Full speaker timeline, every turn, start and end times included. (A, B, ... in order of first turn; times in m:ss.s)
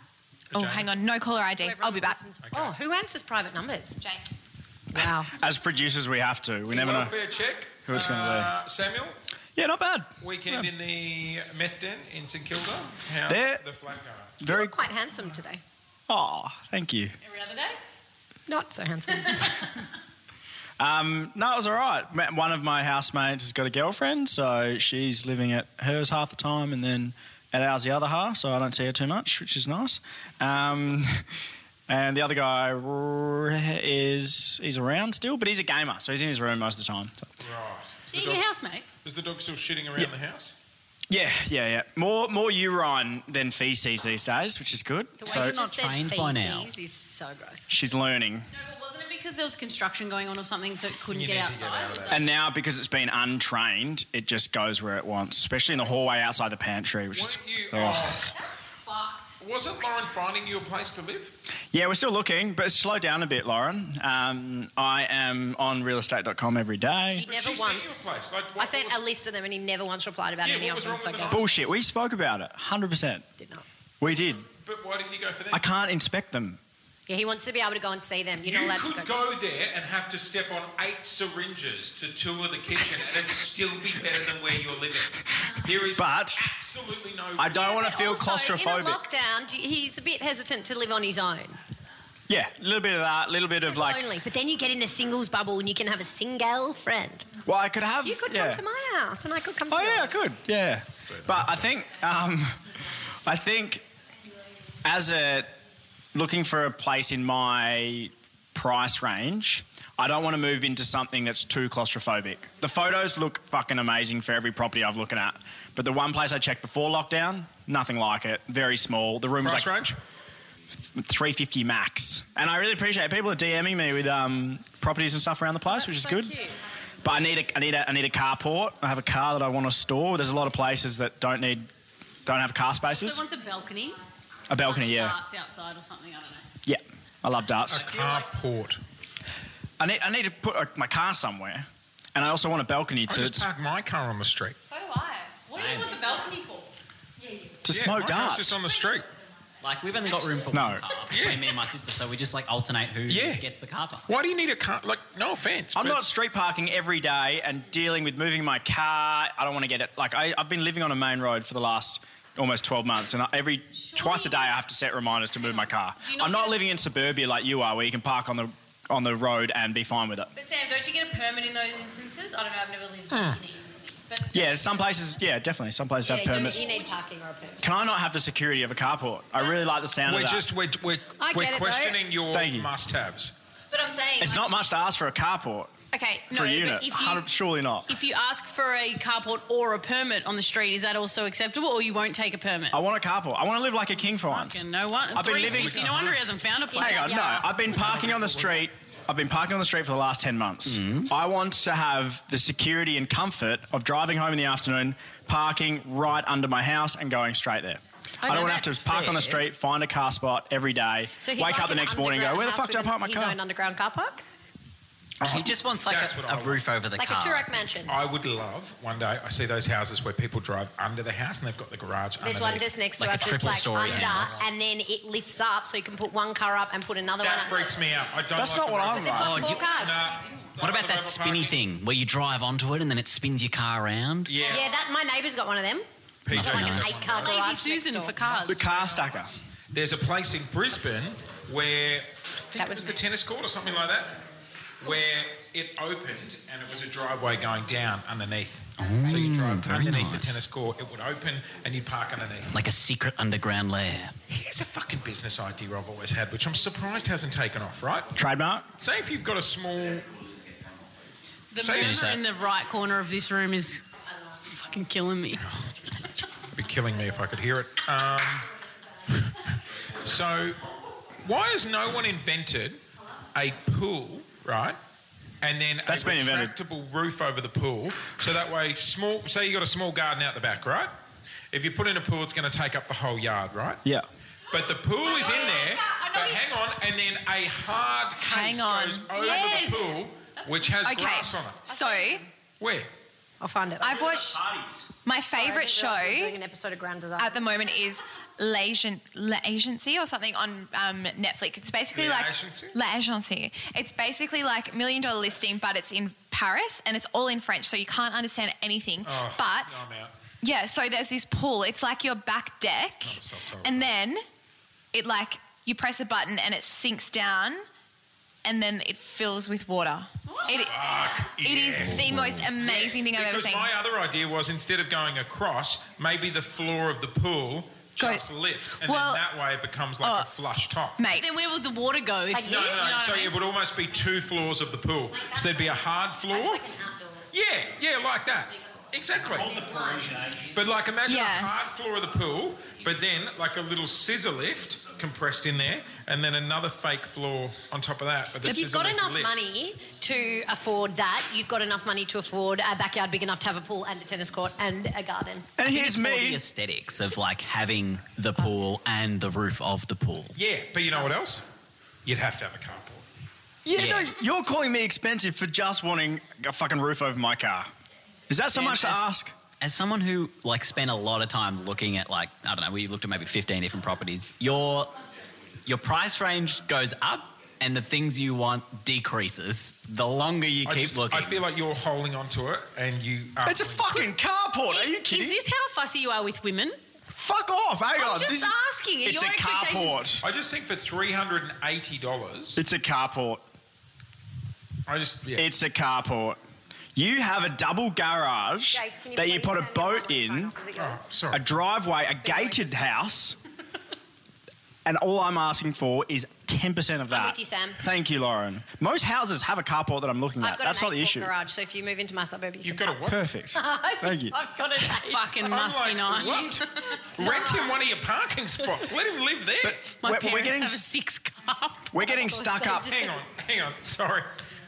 0:00.5-0:00.9 A
0:00.5-0:02.2 B
0:01.6-0:04.0 C
0:02.5-0:02.8 A
0:04.9-0:05.3 C
0:05.2-0:07.2 D
0:06.7-0:09.2 A
0:07.8-0:08.5 D
0:09.6-0:10.7 D
0:10.2-0:14.3 A
0:13.3-0:13.6 D
0:14.4-0:14.8 D
0:14.4-0:15.6 C
0:16.1-0:17.1 D
0:17.2-0:17.8 E
0:18.5-0:19.7 C
0:20.8-0:31.3 D
0:31.9-0:37.3 D
0:37.4-0:38.5 A
0:38.1-0:38.9 E
0:39.0-0:40.5 A
0:41.1-0:45.6 D
0:45.2-0:47.7 C
0:45.3-0:46.7 F
0:47.7-0:48.5 D
0:48.5-0:52.3 E
0:51.1-0:52.3 A
0:52.1-0:58.3 D
0:57.1-0:58.3 A
0:58.9-0:59.3 E
0:59.4-1:01.3 A
1:01.7-1:07.3 D
1:07.1-1:08.0 C
1:07.2-1:09.0 A
1:08.6-1:11.5 C
1:10.4-1:11.7 A
1:11.3-1:13.3 D
1:13.4-1:13.6 C
1:14.0-1:14.5 D
1:14.4-1:15.6 A
1:15.5-1:16.6 D
1:17.1-1:19.1 C
1:18.4-1:27.6 A
1:25.8-1:26.4 D
1:27.4-1:29.0 D
1:27.5-1:31.6 C
1:32.3-1:34.2 D
1:33.7-1:37.3 C
1:37.4-1:38.6 D
1:38.0-1:40.3 C
1:39.7-1:42.7 D
1:41.1-1:41.6 A
1:43.2-1:43.9 D
1:44.8-1:45.6 D
1:46.1-1:59.9 D
1:59.4-2:00.0 A
2:00.9-2:06.4 D
2:05.7-2:06.6 E
2:07.0-2:11.7 D
2:12.3-2:13.2 D
2:12.9-2:14.0 E
2:14.5-2:15.2 D
2:14.5-2:16.4 E
2:16.6-2:18.0 D
2:17.7-2:18.8 A
2:19.8-2:23.5 D
2:23.1-2:24.6 A
2:24.7-2:25.4 B
2:25.5-2:26.7 E
2:25.5-2:26.0 F
2:27.6-2:28.6 D
2:27.7-2:29.1 A
2:29.6-2:34.1 F
2:30.5-2:30.8 D
2:31.1-2:31.6 A
2:33.1-2:33.4 A
2:34.1-2:36.0 A
2:35.8-2:50.3 D
2:43.9-2:44.6 E
2:46.0-2:46.7 E
2:50.4-2:54.6 E
2:53.1-2:53.4 A
2:54.3-2:56.6 D
2:56.0-2:57.6 C
2:56.4-2:56.9 E
2:57.6-3:00.5 D
3:00.0-3:03.4 A
3:01.2-3:02.0 C
3:02.3-3:02.7 D
3:03.7-3:04.5 E
3:04.2-3:05.7 D
3:05.9-3:07.3 E
3:06.3-3:08.0 D
3:07.9-3:12.8 E
3:12.7-3:16.1 D
3:14.3-3:17.4 E
3:15.2-3:16.2 A
3:16.7-3:17.6 C
3:16.7-3:33.4 D
3:17.6-3:18.6 A
3:20.7-3:21.1 F
3:28.2-3:28.7 C
3:28.2-3:29.4 F
3:31.2-3:34.2 C
3:35.2-3:37.5 F
3:35.2-3:36.6 A
3:37.0-3:37.9 C
3:37.8-3:42.7 A
3:42.2-3:47.7 C
3:43.0-3:44.5 F
3:43.2-3:44.5 A
3:47.2-3:51.6 A
3:48.3-3:49.6 D
3:49.0-3:50.0 C
3:49.2-3:49.7 F
3:50.6-3:54.4 F
3:54.3-3:54.7 A
3:54.4-3:58.2 C
3:56.2-3:57.4 A
3:56.3-3:57.0 F
3:57.0-3:58.6 E
3:58.2-4:04.2 A
3:58.4-3:59.3 D
4:02.6-4:03.0 C
4:04.8-4:12.5 A
4:08.8-4:10.4 F
4:12.5-4:14.2 F
4:14.3-4:18.1 A
4:18.2-4:18.7 D
4:18.8-4:20.1 A
4:21.5-4:23.8 E
4:21.6-4:22.2 A
4:21.7-4:22.2 F
4:24.4-4:25.4 E
4:25.4-4:28.5 A
4:29.1-4:30.6 A
4:31.2-4:32.8 A
4:33.3-4:34.8 A
4:35.4-4:40.9 A
4:35.8-4:36.6 D
4:41.5-4:43.8 A
4:44.5-4:51.7 A
4:45.2-4:46.4 B
4:48.2-4:49.8 B
4:49.1-4:50.0 E
4:49.2-4:49.8 C
4:50.8-4:52.3 B
4:51.8-4:52.2 C
4:52.6-4:52.9 A
4:53.4-4:54.1 C
4:53.8-4:54.4 B
4:53.8-4:54.9 D
4:55.0-4:56.4 B
4:55.3-4:57.4 C
4:57.2-5:09.7 B
5:01.9-5:02.8 A
5:09.0-5:10.1 A
5:10.4-5:14.2 B
5:13.0-5:13.9 A
5:14.9-5:17.7 B
5:18.4-5:23.7 B
5:20.5-5:31.0 A
5:28.0-5:28.2 B
5:28.8-5:29.2 B
5:30.0-5:30.3 B
5:31.0-5:31.3 B
5:31.1-5:33.4 E
5:32.3-5:32.8 C
5:32.4-5:36.6 A
5:35.1-5:37.3 C
5:37.3-5:39.6 A
5:38.4-5:38.7 C
5:39.2-5:40.6 D
5:39.2-5:40.2 C
5:40.5-5:49.5 A
5:41.1-5:41.5 B
5:48.4-5:55.5 C
5:55.6-5:56.4 D
5:55.6-6:00.4 F
6:00.4-6:01.4 A
6:02.0-6:03.0 A
6:03.6-6:07.7 D
6:03.7-6:04.1 F
6:08.3-6:09.3 D
6:08.5-6:15.0 F
6:15.7-6:21.4 F
6:20.6-6:24.0 A
6:23.4-6:25.4 D
6:24.7-6:26.8 E
6:27.1-6:30.2 D
6:28.0-6:30.1 E
6:30.2-6:32.6 A
6:32.6-6:33.4 D
6:34.9-6:35.5 A
6:35.3-6:36.4 D
6:37.0-6:40.5 D
6:38.7-6:41.0 C
6:40.8-6:41.4 A
6:41.3-6:43.4 D
6:42.2-6:43.1 C
6:44.8-6:51.3 D
6:47.1-6:47.8 C
6:50.4-6:53.0 C
6:52.6-6:53.2 A
6:53.1-6:54.4 D
6:53.5-6:55.3 C
6:54.8-6:57.0 E
6:55.4-6:59.8 A
6:57.1-6:57.8 C
6:59.6-7:00.8 D
7:00.0-7:02.0 E
7:01.9-7:03.0 D
7:02.1-7:03.2 C
7:02.8-7:04.3 A